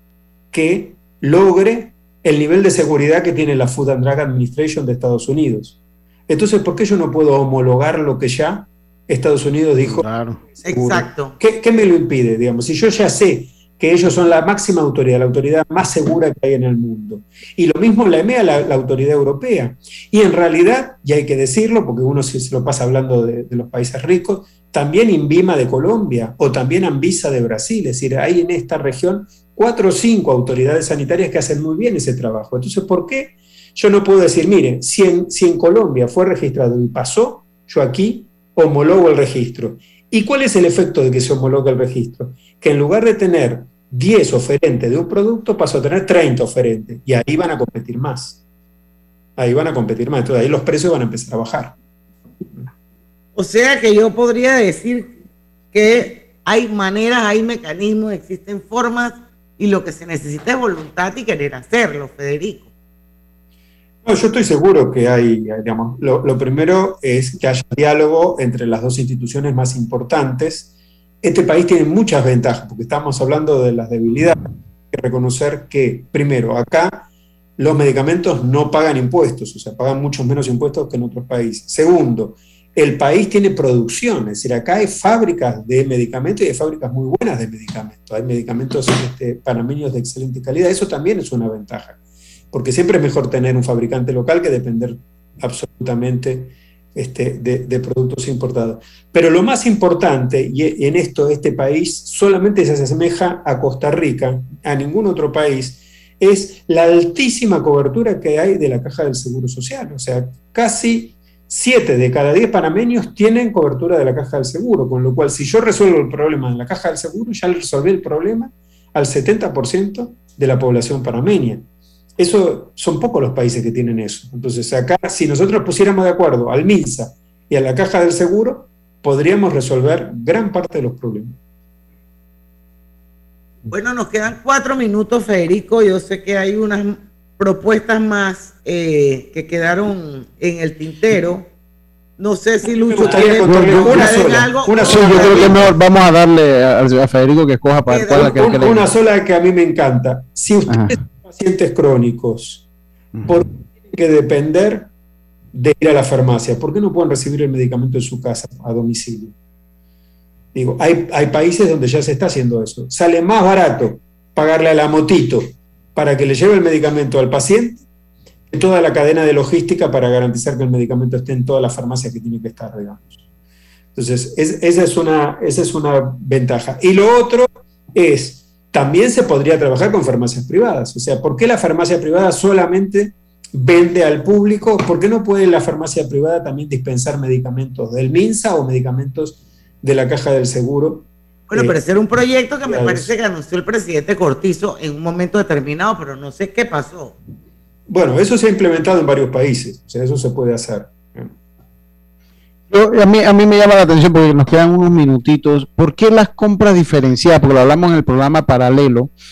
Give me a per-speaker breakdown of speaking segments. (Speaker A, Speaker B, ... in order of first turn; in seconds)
Speaker A: 0.5-48.4, 49.4-51.7, 64.0-70.7, 71.2-92.0, 92.5-121.7, 122.2-131.4, 142.9-145.7, 148.1-152.7, 153.3-154.9, 155.5-159.3, 160.5-167.8, 168.5-173.2, 173.9-191.8, 192.7-193.1, 197.9-201.3
Speaker B: 9.8-10.4, 143.1-144.2, 144.8-148.9, 150.7-151.0, 153.1-153.4, 202.7-209.1
Speaker C: 10.6-11.4, 53.4-55.2, 55.7-62.7, 133.7-141.5, 142.2-145.6, 147.9-148.6, 191.5-197.1